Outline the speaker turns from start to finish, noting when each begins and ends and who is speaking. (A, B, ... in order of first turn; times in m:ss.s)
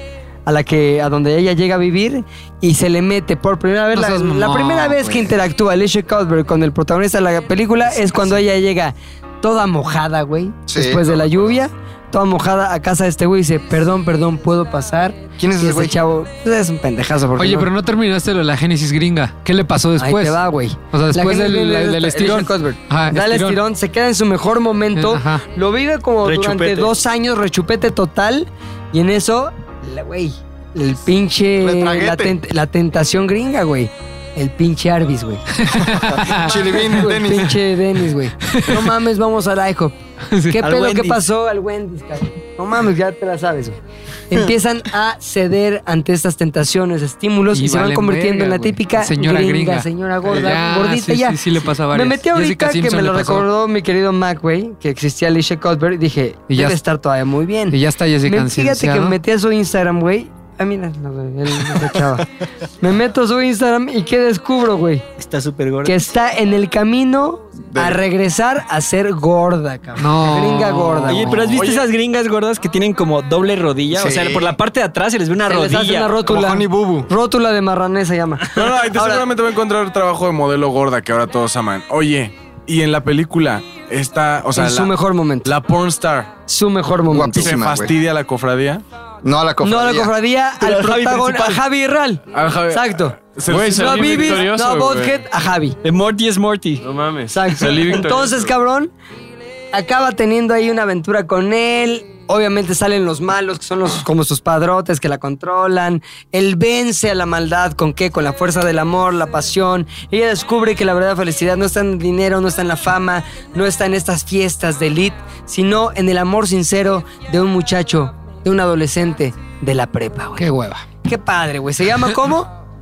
0:00.5-0:17.7 A
0:03.9-0:05.3 B
0:10.7-0:11.1 C
0:15.4-0:16.0 C
0:17.4-0:23.6 B
0:20.0-0:35.5 A
0:25.0-0:25.4 B
0:26.2-0:26.9 D
0:31.6-0:32.4 C
0:35.6-0:37.0 B
0:35.7-0:37.6 C
0:36.3-0:40.0 A
0:38.4-0:38.9 B
0:40.3-0:40.6 B
0:40.5-0:43.8 A
0:40.6-0:41.2 D
0:44.3-1:02.3 A
0:47.5-0:53.5 B
0:56.5-0:56.8 B
0:57.7-0:59.2 B
1:02.8-1:05.1 A
1:05.2-1:06.1 D
1:05.8-1:11.6 A
1:07.7-1:08.0 C
1:10.0-1:11.6 B
1:11.1-1:16.2 D
1:11.5-1:11.9 E
1:13.9-1:14.5 C
1:15.5-1:19.3 A
1:16.3-1:17.1 C
1:18.5-1:26.3 E
1:24.6-1:25.5 A
1:26.5-1:27.5 A
1:27.1-1:27.9 C
1:27.4-1:28.8 E
1:29.2-1:30.2 C
1:29.6-1:35.8 A
1:30.6-1:31.6 E
1:32.3-1:34.6 E
1:33.5-1:35.2 F
1:35.8-1:36.9 D
1:36.8-1:38.4 F
1:37.3-1:38.9 A
1:39.7-2:00.5 A
2:00.4-2:00.8 B
2:01.0-2:02.5 A